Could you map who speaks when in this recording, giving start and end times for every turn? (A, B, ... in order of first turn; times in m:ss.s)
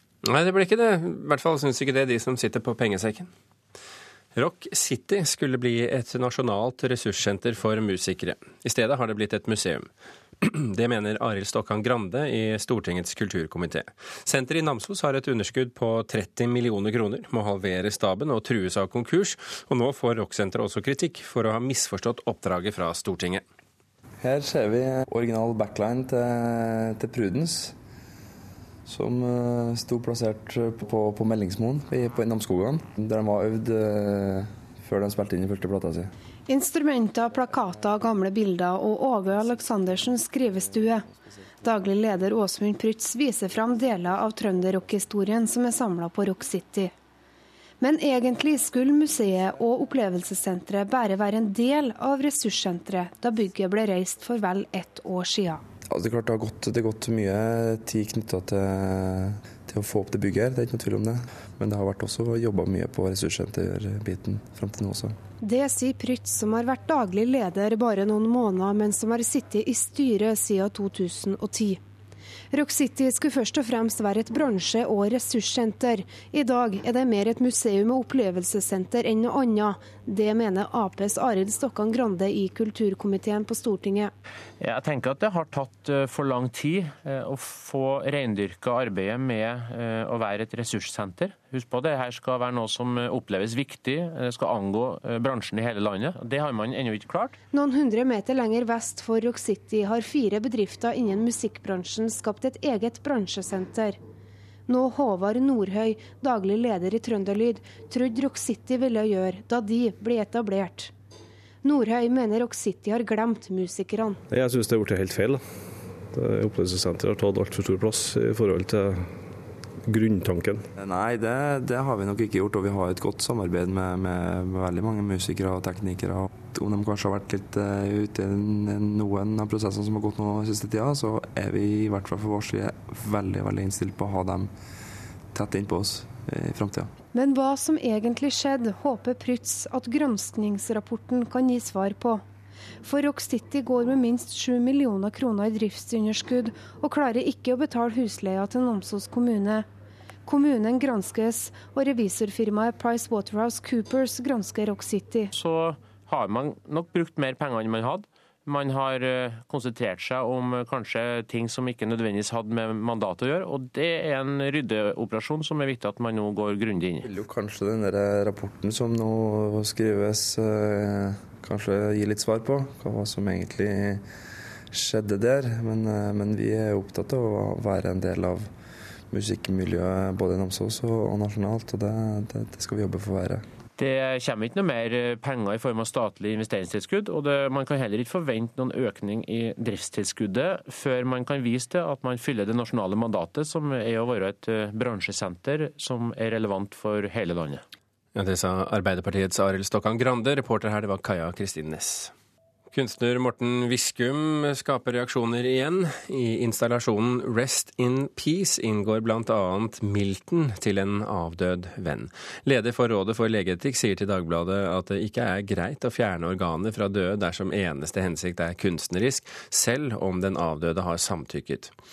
0:00.2-0:03.3 A
0:04.4-0:09.9 A
0:10.4-0:23.4 A
0:24.2-0:27.7 B
0:28.9-0:36.1 B
0:36.5-0:41.1 C
0:41.6-0:46.9 C
0:47.8-0:55.6 C
0:55.9-1:05.2 B
1:05.4-1:11.8 C
1:12.5-1:24.1 C
1:24.6-1:37.4 D
1:37.5-1:44.0 C
1:44.7-1:50.9 C
1:51.6-1:54.2 C
1:54.3-1:55.4 E
1:56.0-1:59.2 E
1:59.9-2:00.6 E
2:00.8-2:14.5 B
2:15.3-2:16.9 B
2:17.1-2:22.2 C
2:22.8-2:29.6 C
2:30.2-2:35.3 C
2:35.3-2:47.0 D
2:47.0-2:54.1 B
2:54.7-2:58.5 B
2:59.1-3:03.4 B
3:03.8-3:17.6 D
3:18.1-3:22.1 A
3:22.7-3:41.7 A